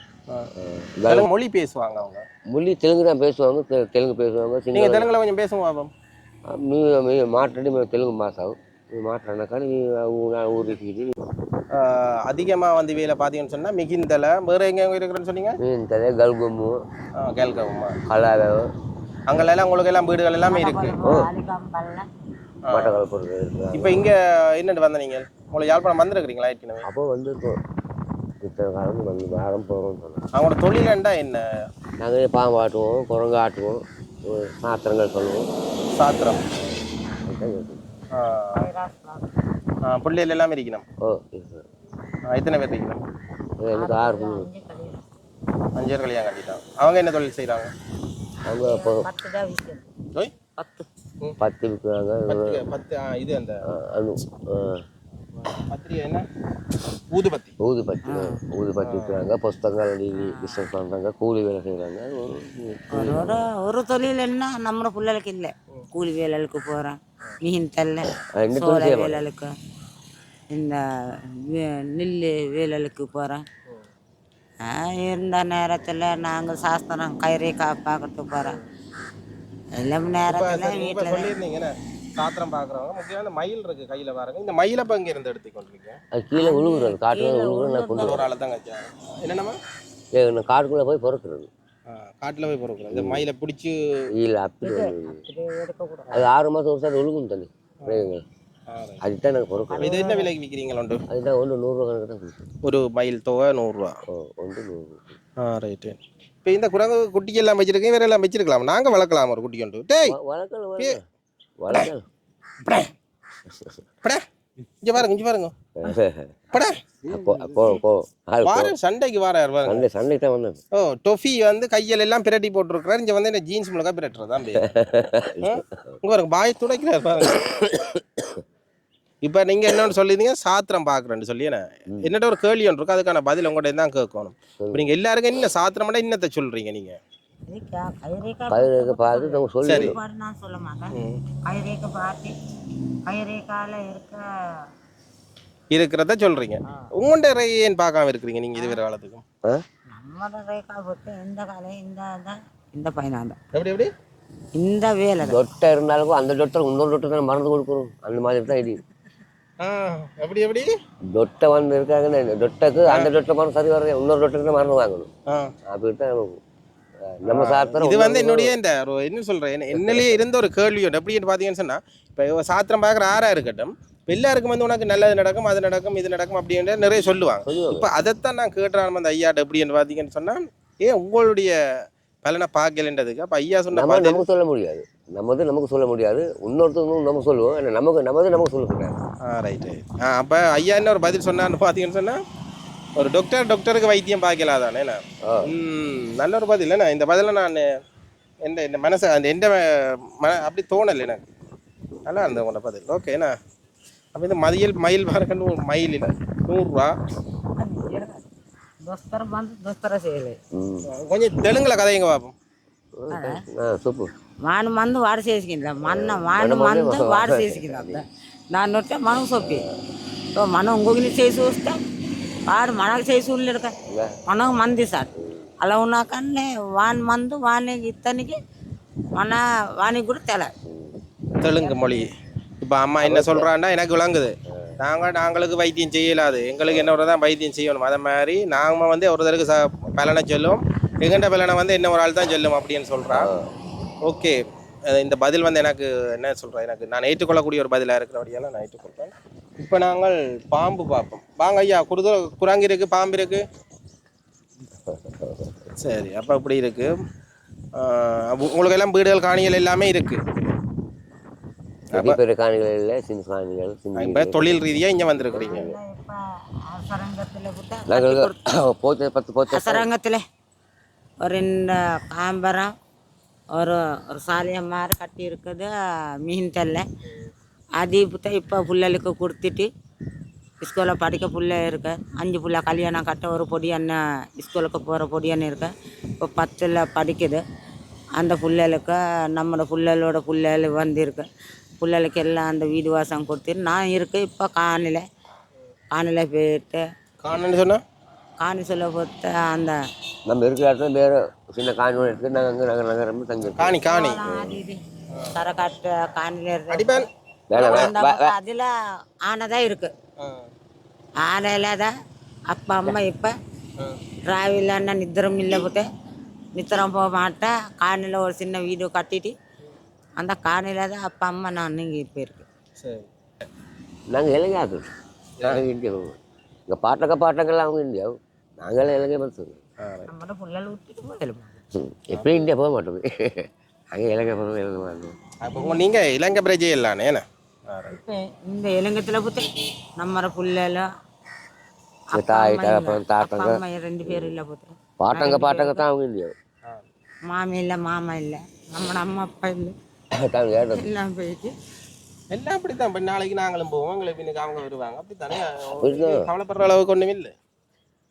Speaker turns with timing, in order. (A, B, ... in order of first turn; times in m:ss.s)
0:00.6-0:01.3 A
0:01.0-0:02.2 B
0:02.5-0:05.1 A
0:04.7-0:05.9 B
0:06.5-0:11.1 A
0:11.7-0:15.6 B
0:15.6-0:16.8 A
0:17.1-0:18.0 B
0:18.1-0:18.7 A
0:19.3-0:21.0 B
0:20.5-0:22.1 C
0:21.0-0:21.3 A
0:22.6-0:23.0 B
0:22.7-0:24.1 A
0:23.7-0:26.8 B
0:26.8-0:27.6 A
0:28.4-0:30.2 A
0:30.3-0:31.4 B
0:32.0-0:35.5 A
0:36.0-0:36.4 B
0:37.2-0:37.8 A
0:38.1-0:38.6 B
0:38.5-0:39.3 C
0:39.8-0:40.8 B
0:41.0-0:41.6 A
0:42.3-0:43.0 B
0:43.6-0:44.5 A
0:43.7-0:45.0 C
0:45.8-0:47.7 B
0:48.4-0:49.1 A
0:48.6-0:49.9 C
0:50.6-0:50.9 C
0:51.4-0:52.6 A
0:52.3-0:53.6 B
0:53.7-0:54.8 A
0:55.5-0:56.2 B
0:57.1-0:57.5 B
0:57.6-1:03.5 A
0:58.1-0:58.4 C
0:58.8-0:59.2 B
1:00.1-1:00.6 C
1:02.9-1:09.5 C
1:08.2-1:09.2 A
1:10.5-1:13.4 C
1:14.6-1:18.6 C
1:19.8-1:21.4 C
1:20.3-1:26.0 B
1:26.1-1:28.3 A
1:26.3-1:28.2 C
1:28.0-1:29.6 B
1:30.1-1:31.5 A
1:31.9-1:34.1 B
1:32.9-1:33.3 A
1:34.2-1:35.2 A
1:34.6-1:36.3 C
1:36.1-1:38.2 A
1:37.8-1:38.1 B
1:38.7-1:39.0 B
1:39.0-1:40.0 A
1:39.7-1:40.3 C
1:39.8-1:41.0 B
1:41.1-1:42.4 A
1:42.6-1:44.0 B
1:44.1-1:45.2 A
1:45.4-1:50.2 B
1:50.1-1:51.0 A
1:51.6-1:52.0 A
1:53.5-1:53.8 A
1:54.8-1:55.5 B
1:55.8-1:56.3 A
1:56.5-1:56.8 B
1:57.0-1:58.7 A
1:58.4-1:59.9 B
1:59.6-2:00.6 A
2:00.7-2:04.7 B
2:04.6-2:06.0 A
2:05.4-2:07.4 B
2:07.3-2:08.4 A
2:09.2-2:17.0 B
2:14.6-2:14.9 A
2:17.5-2:22.3 C
2:18.5-2:20.0 A
2:19.6-2:20.0 B
2:20.9-2:21.2 B
2:23.0-2:24.2 C
2:25.7-2:29.2 B
2:28.5-2:28.8 C
2:29.9-2:33.4 C
2:33.5-2:33.9 B
2:34.5-2:35.4 C
2:35.2-2:38.8 A
2:39.6-2:40.7 B
2:41.1-2:45.1 A
2:42.9-2:43.1 B
2:45.7-2:46.4 A
2:47.0-2:48.6 A
2:47.2-3:01.5 B
2:49.7-2:50.2 A
2:57.4-2:57.9 A
3:02.2-3:04.2 B
3:03.7-3:09.0 A
3:09.2-3:12.2 B
3:13.0-3:17.7 B
3:18.4-3:21.2 B
3:22.0-3:23.3 B
3:24.1-3:26.9 B
3:27.6-3:28.2 C
3:28.8-3:30.4 C
3:30.5-3:30.9 A
3:30.9-3:32.3 B
3:33.0-3:34.1 A
3:33.1-3:33.4 C
3:34.4-3:39.7 C
3:35.8-3:38.0 A
3:39.4-3:39.8 A
3:40.3-3:41.8 C
3:42.5-3:43.7 C
3:43.8-3:44.2 A
3:44.3-3:48.4 C
3:45.2-3:45.5 A
3:49.1-3:50.5 C
3:50.6-3:51.0 A
3:51.4-3:52.1 B
3:51.4-3:52.1 C
3:52.6-4:03.3 B
3:53.0-3:53.5 A
3:56.7-3:57.0 A
4:03.1-4:03.5 A
4:04.0-4:04.4 B
4:04.9-4:13.4 B
4:14.8-4:15.6 A
4:15.8-4:16.9 B
4:17.8-4:20.2 B
4:21.9-4:22.2 B
4:21.9-4:24.6 A
4:24.0-4:25.6 B
4:25.2-4:25.8 A
4:25.3-4:28.4 C
4:27.9-4:29.9 A
4:29.5-4:30.2 C
4:31.2-4:32.7 C
4:33.5-4:36.8 C
4:37.8-4:39.7 C
4:40.6-4:47.4 C
4:48.2-4:51.3 C
4:51.8-4:55.0 C
4:55.9-4:56.8 C
4:57.2-4:57.8 B
4:58.4-4:59.8 C
5:00.2-5:04.6 A
5:03.4-5:04.2 B
5:03.8-5:04.8 C
5:05.3-5:08.7 C
5:06.7-5:07.9 B
5:07.5-5:08.4 A
5:09.2-5:09.9 C
5:10.2-5:10.4 B
5:11.2-5:11.9 C
5:12.5-5:13.4 C
5:14.3-5:15.9 C
5:16.5-5:19.3 C
5:20.2-5:22.4 C
5:22.8-5:23.1 B
5:24.1-5:24.9 A
5:25.4-5:26.2 A
5:26.7-5:29.6 A
5:29.8-5:30.1 B
5:30.1-5:31.6 C
5:31.7-5:35.2 A
5:32.1-5:32.4 B
5:35.4-5:38.0 B
5:35.5-5:35.9 C
5:37.9-5:40.9 C
5:42.1-5:45.8 C
5:42.1-5:44.4 A
5:45.0-5:46.3 A
5:47.3-5:49.8 C
5:50.2-5:50.8 A
5:50.7-5:51.5 C
5:52.3-5:57.3 B
5:55.8-5:56.3 A